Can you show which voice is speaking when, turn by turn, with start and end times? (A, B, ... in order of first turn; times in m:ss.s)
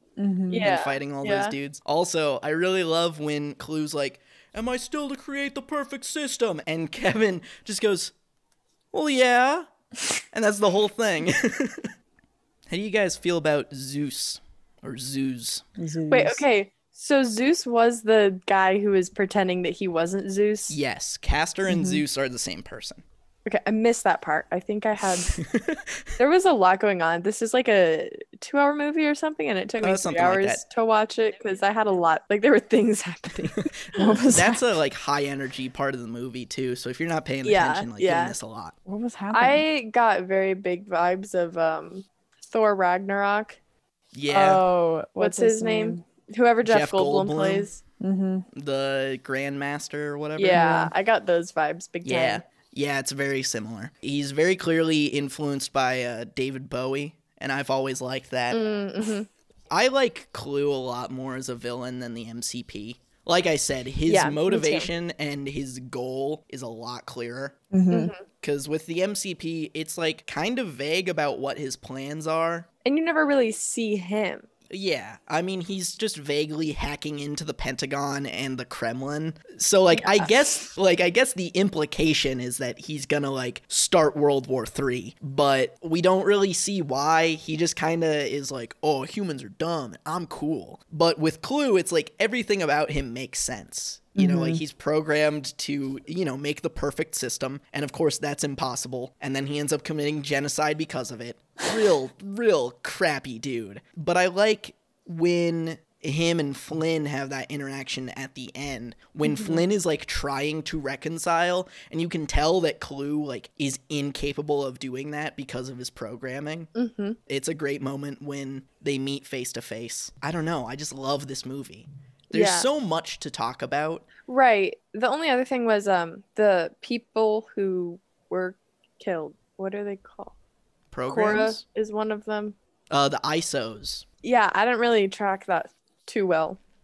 0:00.2-0:00.7 A
0:00.5-0:01.5 B
0:00.6-0:08.1 C
0:08.9-0:09.7 C
0:10.3-0:11.9 C
0:12.7-0:15.6 C
0:15.8-0:16.4 A
0:16.1-0:20.8 B
0:20.7-0:23.0 C
0:21.7-0:22.0 A
0:23.4-0:25.4 B
0:25.3-0:26.1 C
0:26.2-0:34.2 B
0:29.8-0:30.6 C
0:33.4-0:33.7 C
0:34.0-0:34.6 A
0:34.3-0:38.7 C
0:37.4-0:38.4 B
0:38.8-0:39.6 A
0:39.3-0:43.6 B
0:44.1-0:44.6 C
0:44.3-0:44.6 B
0:44.4-0:46.0 A
0:45.2-0:47.8 B
0:46.6-0:47.7 C
0:48.0-0:48.5 A
0:48.5-0:50.7 C
0:50.4-0:52.4 B
0:50.5-0:50.9 A
0:52.0-0:58.6 C
0:58.5-0:59.3 B
0:59.7-1:07.6 C
1:04.1-1:04.9 B
1:07.7-1:08.1 A
1:07.9-1:08.2 B
1:08.4-1:12.7 C
1:12.8-1:14.5 B
1:14.7-1:56.7 C
1:19.9-1:20.6 B
1:34.2-1:34.6 A
1:49.2-1:49.6 B
1:56.7-1:57.2 B
1:57.3-2:04.0 C
2:02.3-2:02.7 B
2:04.2-2:10.3 B
2:10.9-2:11.6 C
2:11.1-2:12.5 B
2:12.9-2:14.0 C
2:14.2-2:16.6 B